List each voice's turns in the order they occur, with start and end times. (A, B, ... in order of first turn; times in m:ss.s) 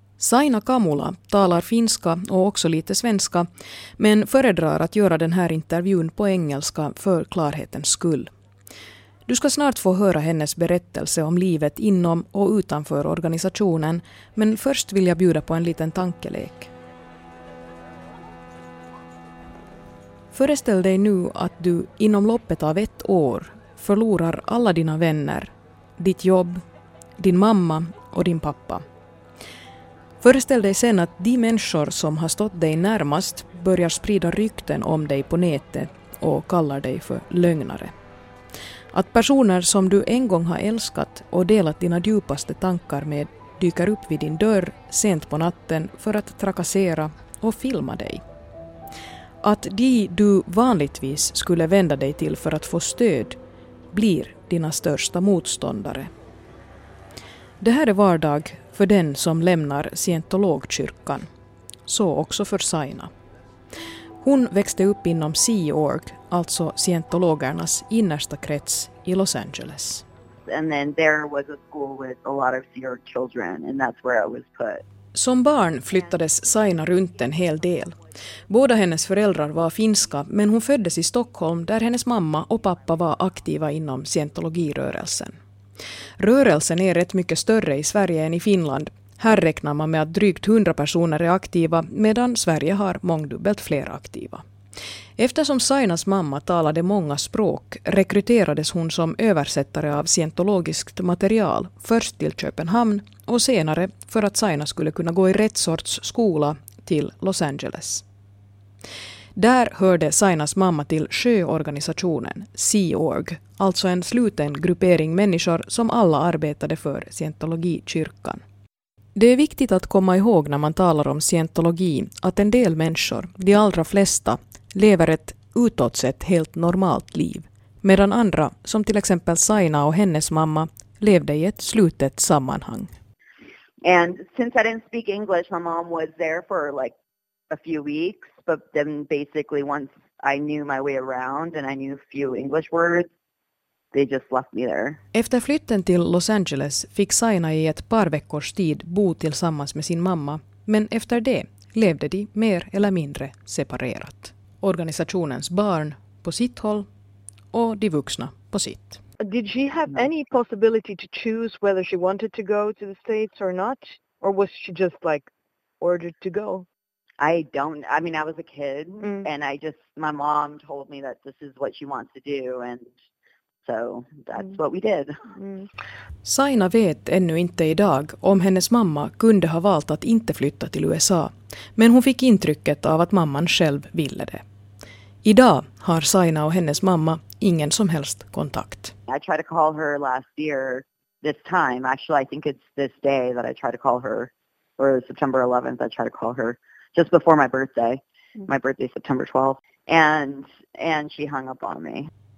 0:00.2-0:03.5 A
0:04.0-0:08.3 A
0:09.3-0:16.7 A
0:20.3-0:26.6 A
0:27.2-0:28.8 A
0:30.2-0:37.9 A
0:38.9-0:48.2 A
0:49.4-0:53.4 A
0:53.9-0:56.1 A
0:57.6-1:01.3 A
1:01.9-1:03.1 A
1:04.2-1:10.0 A
1:10.5-1:14.8 B
1:15.1-1:25.4 A
1:26.2-1:34.4 A
1:35.2-1:48.0 A
1:49.4-1:58.4 A
1:59.1-2:12.9 A
2:13.8-2:16.9 B
2:17.5-2:23.1 B
2:23.9-2:25.0 B
2:25.1-2:36.9 A
2:37.5-2:39.0 A
2:39.2-2:46.6 C
2:47.2-2:52.9 B
2:49.0-2:49.3 C
2:53.6-2:55.4 B
2:55.4-2:55.7 C
2:56.2-3:04.4 A
3:05.2-3:08.9 A
3:09.1-3:22.1 B